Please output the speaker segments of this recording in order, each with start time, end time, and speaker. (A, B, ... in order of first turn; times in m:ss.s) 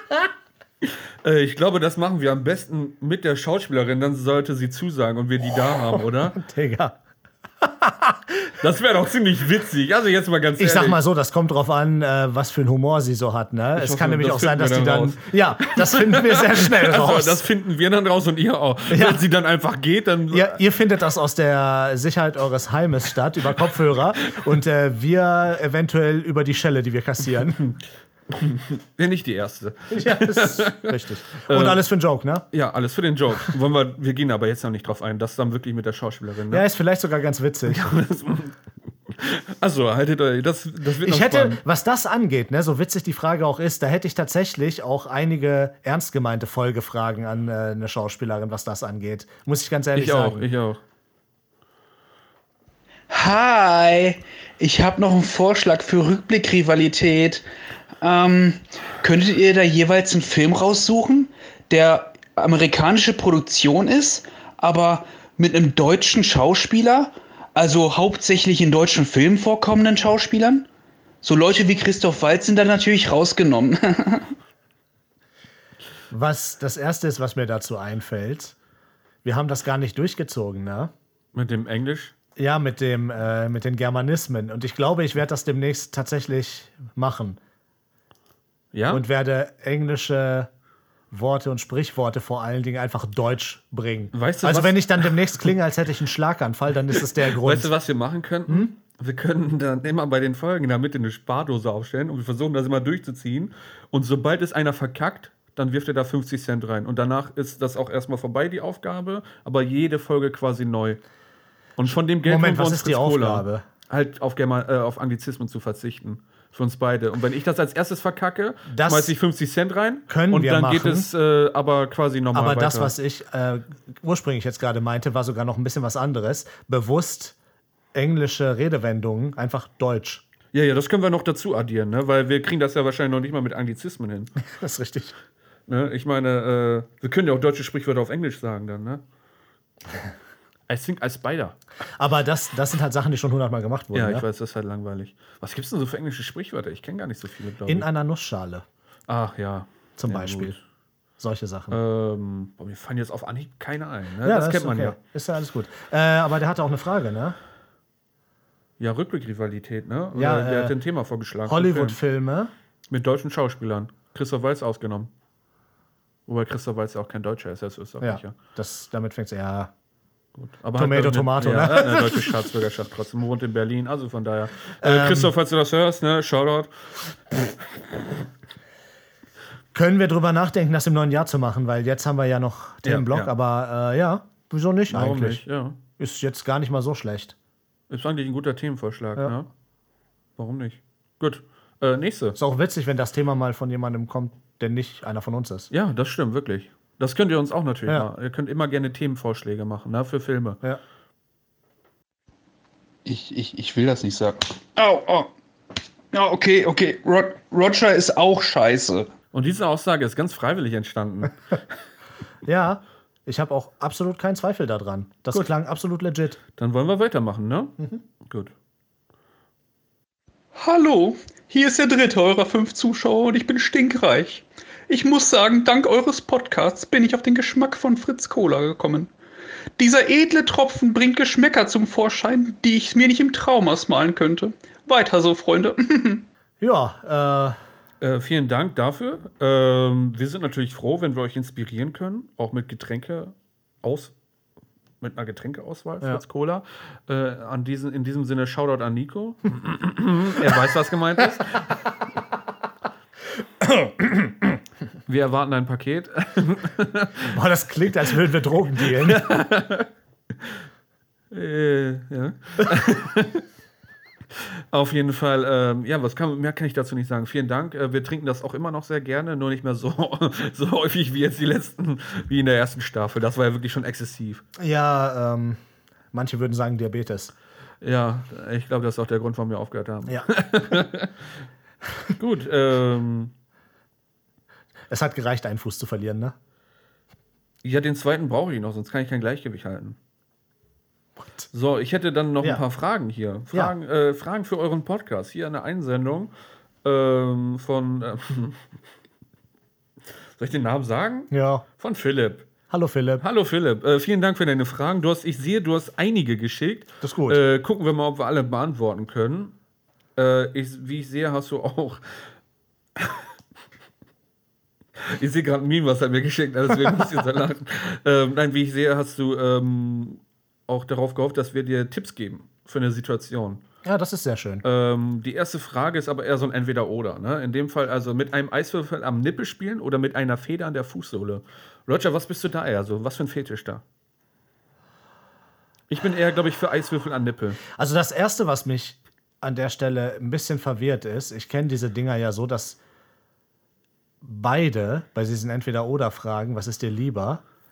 0:01.2-0:06.4 A
0:05.9-0:07.0 B
0:07.6-0:08.5 B
0:08.6-0:11.0 A
0:10.6-0:17.4 B
0:13.8-0:20.6 A
0:18.9-0:19.2 B
0:20.3-0:27.6 B
0:28.3-0:31.8 A
0:29.9-0:32.5 B
0:32.5-0:36.7 A
0:36.5-0:37.9 B
0:37.7-0:38.6 A
0:39.1-0:41.6 A
0:41.0-0:50.5 B
0:49.9-0:50.8 A
0:53.1-0:57.4 C
0:58.0-1:10.7 C
1:11.2-1:14.3 C
1:16.1-1:18.6 B
1:19.2-1:20.9 B
1:21.3-1:22.1 A
1:22.4-1:27.4 B
1:28.7-1:29.0 A
1:28.9-1:30.5 B
1:31.1-1:37.7 B
1:34.1-1:35.2 A
1:37.3-1:51.0 A
1:51.8-2:02.9 A
1:52.2-1:53.7 B
1:58.7-1:59.2 B
2:00.1-2:01.1 B
2:02.3-2:07.4 B
2:07.9-2:10.2 B
2:10.5-2:14.4 A
2:14.4-2:15.2 B
2:15.7-2:19.0 A
2:20.7-2:21.6 A
2:22.0-2:24.2 B
2:23.9-2:27.9 A
2:27.7-2:28.6 B
2:29.1-2:30.6 A
2:30.0-2:30.6 B
2:31.2-2:31.8 B
2:31.7-2:35.0 A
2:34.2-2:37.4 B
2:38.8-2:42.0 A
2:40.1-2:40.8 B
2:41.5-2:42.5 B
2:42.9-2:45.1 A
2:46.3-2:48.4 A
2:48.0-2:49.7 B
2:50.4-2:56.7 A
2:50.8-2:52.5 B
2:54.8-2:55.3 B
2:59.7-3:05.4 B
3:02.8-3:03.3 A
3:04.9-3:05.8 A
3:06.0-3:07.4 B
3:07.9-3:09.5 A
3:10.4-3:12.4 A
3:12.4-3:15.7 B
3:15.7-3:20.6 A
3:23.1-3:25.3 C
3:26.1-3:29.1 C
3:29.3-3:31.4 A
3:32.4-3:36.4 B
3:36.6-3:37.8 A
3:38.3-3:38.5 A
3:40.6-3:49.1 C
3:49.8-3:56.2 C
3:56.6-3:57.6 B
3:58.0-4:04.1 A
4:05.0-4:11.6 A
4:13.6-4:14.3 B
4:15.1-4:17.3 A
4:17.3-4:19.2 B
4:19.0-4:19.9 A
4:21.3-4:23.4 A
4:24.7-4:34.4 A
4:34.6-4:35.6 B
4:36.1-4:37.3 B
4:37.8-4:41.1 A
4:42.2-4:43.3 A
4:44.9-4:46.4 B
4:47.6-4:50.0 A
4:51.5-4:56.3 A
4:56.8-4:58.6 A
5:00.4-5:02.5 A
5:01.3-5:01.6 B
5:02.7-5:03.2 B
5:03.2-5:09.5 A
5:07.0-5:07.4 B
5:10.2-5:12.0 A
5:15.0-5:23.6 A
5:23.8-5:24.6 B
5:24.6-5:33.8 A
5:35.9-5:37.6 A
5:37.7-5:42.8 B
5:44.2-5:47.4 B